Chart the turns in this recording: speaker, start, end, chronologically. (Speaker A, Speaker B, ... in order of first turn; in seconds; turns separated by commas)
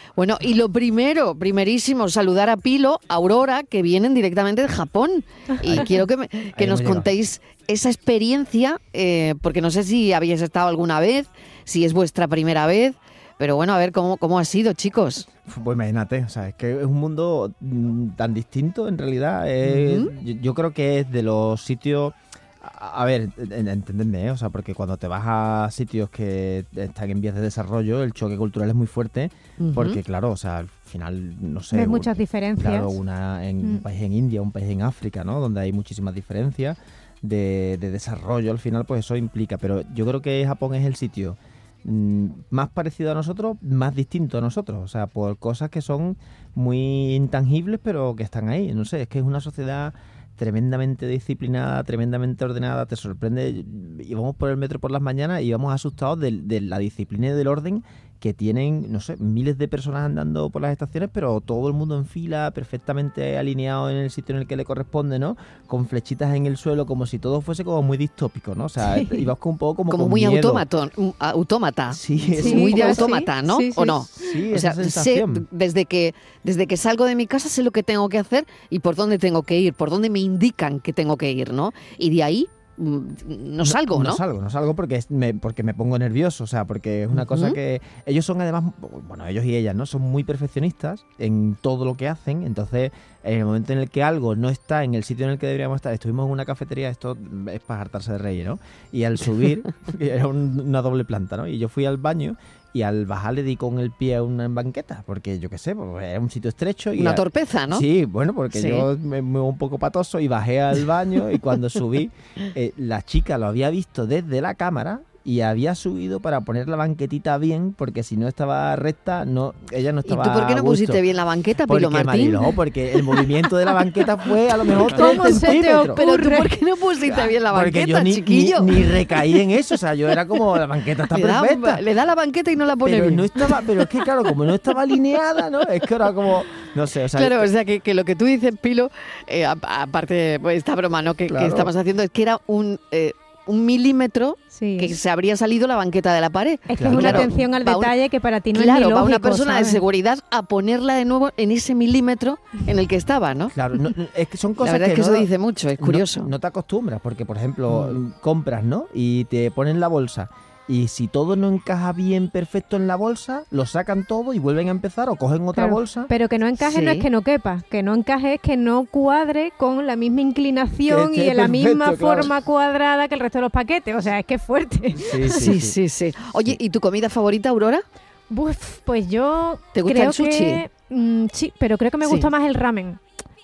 Speaker A: 0.2-15.3, Speaker B: 5.6-5.9, Speaker B: 6.5-7.1, Speaker B: 15.4-70.6, Speaker A: 19.6-20.1, Speaker A: 29.6-30.0, Speaker C: 31.7-33.0, Speaker C: 68.9-69.3, Speaker A: 69.9-84.2, Speaker B: 71.9-73.1, Speaker C: 72.3-74.0, Speaker B: 73.9-75.5, Speaker B: 83.6-121.0, Speaker A: 87.1-87.5, Speaker A: 107.0-107.8, Speaker A: 108.5-108.9, Speaker A: 120.0-122.5, Speaker B: 121.7-126.0, Speaker C: 124.9-126.5, Speaker A: 124.9-129.0, Speaker B: 127.1-131.8, Speaker A: 131.1-134.0, Speaker B: 132.8-137.5, Speaker A: 137.1-147.9, Speaker B: 141.3-141.7, Speaker C: 144.5-144.9, Speaker C: 146.7-149.8, Speaker B: 146.8-147.3, Speaker A: 148.5-153.5, Speaker B: 153.5-166.1, Speaker A: 154.6-156.3, Speaker A: 157.7-158.0, Speaker C: 165.5-175.5, Speaker A: 166.6-167.1, Speaker B: 170.8-172.3, Speaker B: 174.9-175.8, Speaker A: 175.3-177.8, Speaker C: 178.3-183.0, Speaker A: 179.7-180.6, Speaker A: 182.0-182.3